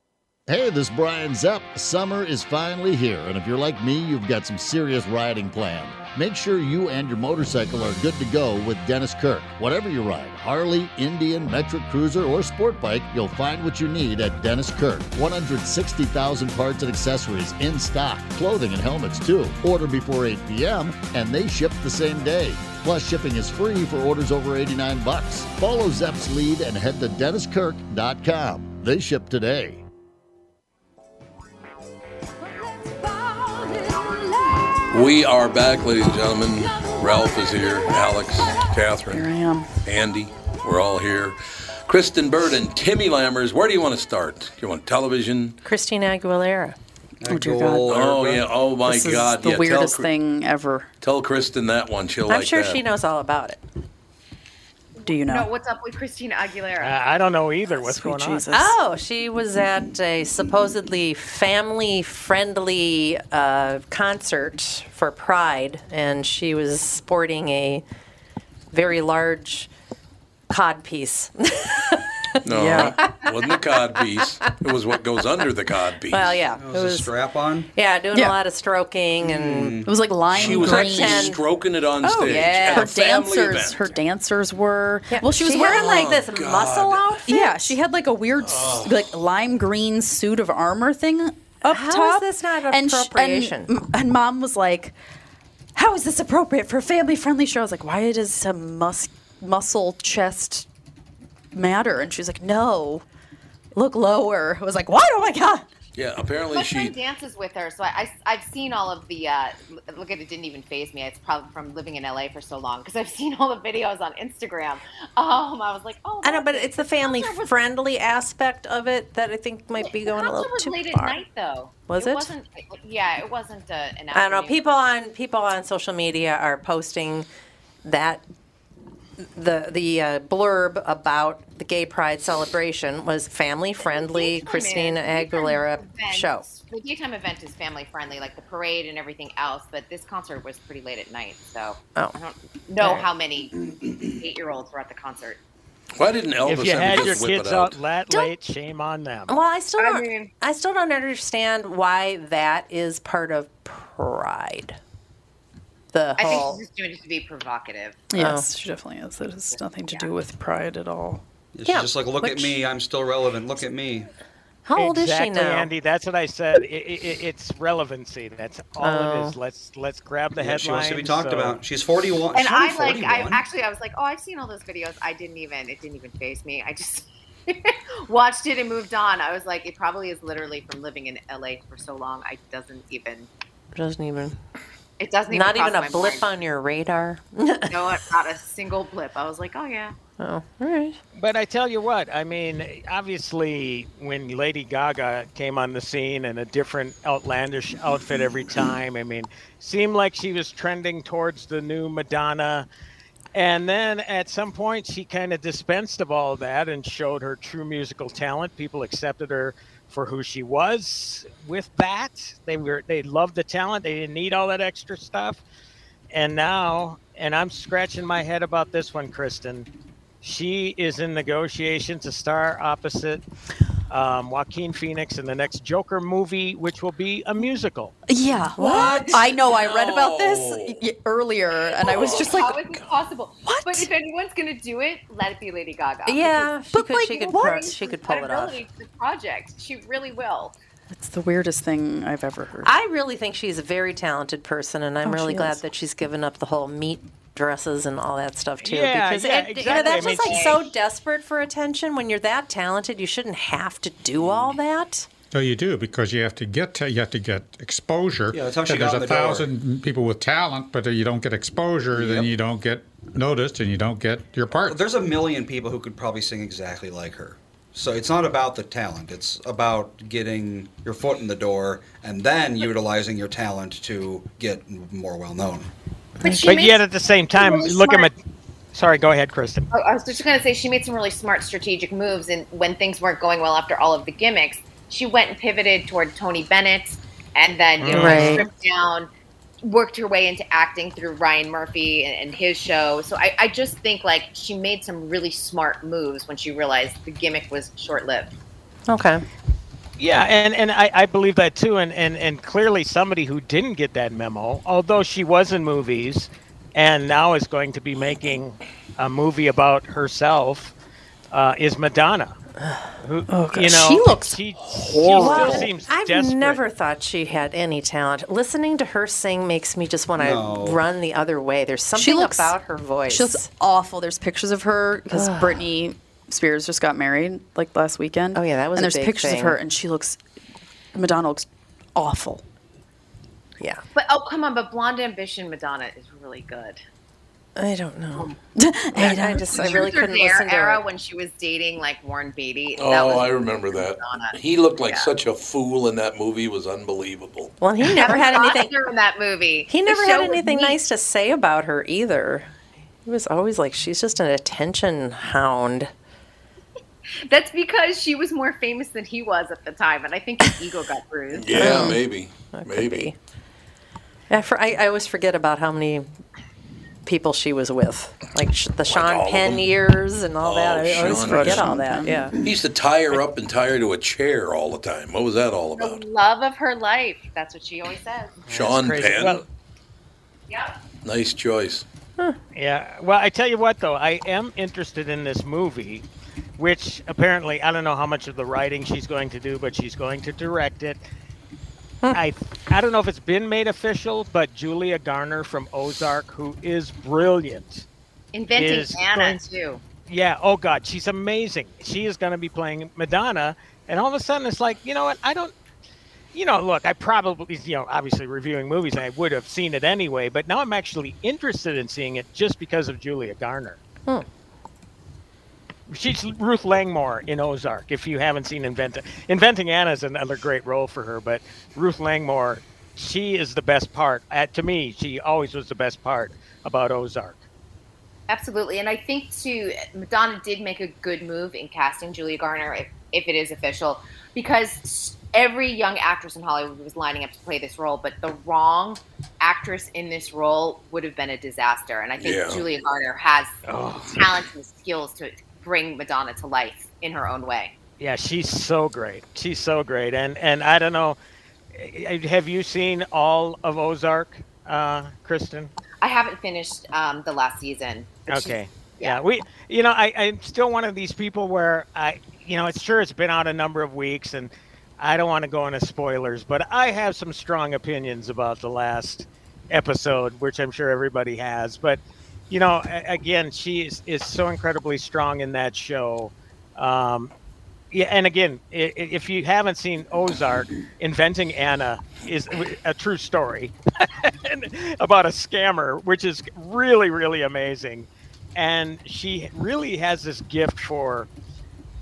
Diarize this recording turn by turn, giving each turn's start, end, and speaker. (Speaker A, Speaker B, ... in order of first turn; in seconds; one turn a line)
Speaker A: 0.5-29.8
Speaker B: 34.9-39.3
Speaker C: 39.1-39.7
Speaker B: 39.8-45.6
Speaker D: 45.6-46.8
Speaker E: 47.2-48.5
Speaker C: 47.3-47.9
Speaker B: 47.9-50.1
Speaker C: 48.8-50.9
Speaker B: 51.0-52.8
Speaker D: 52.3-53.6
Speaker F: 55.0-57.0
Speaker C: 55.0-55.5
Speaker G: 56.8-58.5
Speaker C: 57.7-58.8
Speaker D: 58.5-67.8
Speaker D: 68.7-69.7
Speaker D: 70.5-73.0
Speaker B: 72.4-76.2
Speaker C: 72.5-73.0
Speaker D: 76.1-77.1
Speaker E: 76.5-77.7
Speaker D: 77.7-79.8
Speaker E: 79.2-79.9
Speaker C: 79.8-81.4
Speaker B: 80.3-84.0
Speaker D: 80.4-81.4
Speaker C: 82.0-86.1
Speaker D: 82.3-82.8
Speaker D: 85.1-87.8
Speaker B: 85.7-87.1
Speaker C: 87.3-95.0
Speaker B: 88.4-89.1
Speaker D: 91.7-93.7
Speaker C: 95.7-100.7
Speaker C: 101.5-103.0
Speaker C: 103.7-105.7
Speaker B: 105.9-107.0
Speaker F: 106.5-117.6
Speaker D: 116.2-121.2
Speaker F: 119.8-124.6
Speaker D: 121.9-122.3
Speaker D: 124.1-127.3
Speaker D: 127.8-128.2
Speaker D: 129.2-136.4
Speaker F: 133.8-145.4
Speaker D: 142.8-143.1
Speaker B: 145.9-147.8
Speaker G: 146.4-149.3
Speaker D: 149.3-154.8
Speaker F: 149.8-150.3
Speaker D: 155.9-156.6
Speaker F: 156.2-158.0
Speaker C: 158.1-161.2
Speaker D: 158.1-158.5
Speaker E: 161.5-164.1
Speaker D: 161.7-162.6
Speaker D: 164.7-165.7
Speaker G: 164.8-171.6
Speaker D: 168.8-169.3
Speaker E: 170.4-173.4
Speaker F: 172.3-183.3
Speaker D: 183.7-184.3
Speaker F: 185.0-186.3
Speaker D: 185.3-188.0
Speaker F: 187.7-189.9
Speaker D: 190.2-191.0
Speaker G: 191.2-202.7
Speaker G: 203.3-215.4
Speaker G: 216.1-219.7
Speaker G: 220.2-223.2
Speaker G: 223.9-227.9
Speaker C: 228.1-232.6
Speaker D: 228.6-229.2
Speaker F: 228.6-229.2
Speaker B: 228.8-230.8
Speaker B: 231.8-232.9
Speaker F: 231.9-240.6
Speaker C: 233.4-233.9
Speaker D: 236.1-238.6
Speaker C: 236.7-237.5
Speaker C: 240.9-242.7
Speaker D: 242.6-255.1
Speaker C: 245.0-245.6
Speaker G: 248.6-250.6
Speaker F: 249.6-250.7
Speaker H: 255.3-264.8
Speaker E: 258.3-259.5
Speaker E: 261.9-262.3
Speaker E: 264.6-275.7
Speaker F: 276.2-278.1
Speaker G: 276.4-278.2
Speaker G: 278.7-279.7
Speaker F: 279.7-289.1
Speaker G: 287.8-288.4
Speaker D: 287.9-288.5
Speaker F: 289.6-298.3
Speaker D: 298.9-299.2
Speaker G: 300.0-310.7
Speaker G: 311.3-312.4
Speaker G: 313.0-316.6
Speaker C: 313.3-315.7
Speaker D: 315.2-323.4
Speaker E: 320.2-320.8
Speaker C: 321.9-322.5
Speaker C: 323.1-330.2
Speaker D: 325.1-325.7
Speaker D: 328.3-329.6
Speaker C: 330.9-332.4
Speaker F: 333.9-336.8
Speaker D: 337.6-338.4
Speaker C: 338.6-339.8
Speaker D: 338.9-340.8
Speaker F: 339.6-344.4
Speaker B: 342.8-347.5
Speaker D: 347.6-348.8
Speaker F: 347.8-350.8
Speaker D: 349.7-352.5
Speaker D: 353.0-355.9
Speaker F: 357.3-361.9
Speaker B: 361.3-363.1
Speaker D: 361.5-363.2
Speaker D: 364.3-366.1
Speaker D: 367.0-372.4
Speaker B: 368.9-369.7
Speaker B: 370.4-371.8
Speaker C: 371.1-372.3
Speaker B: 372.4-376.0
Speaker F: 375.8-378.4
Speaker G: 378.5-379.4
Speaker B: 378.5-379.4
Speaker F: 380.5-380.8
Speaker B: 381.0-381.8
Speaker G: 382.5-386.0
Speaker G: 386.6-391.0
Speaker G: 392.1-397.9
Speaker F: 398.3-399.8
Speaker G: 398.5-399.4
Speaker G: 400.1-405.5
Speaker G: 406.3-413.8
Speaker G: 415.9-427.4
Speaker F: 428.3-443.5
Speaker B: 442.2-442.6
Speaker G: 443.6-444.2
Speaker F: 444.1-447.8
Speaker G: 448.0-451.2
Speaker G: 451.7-455.7
Speaker F: 456.0-459.2
Speaker G: 458.3-477.3
Speaker G: 477.9-491.3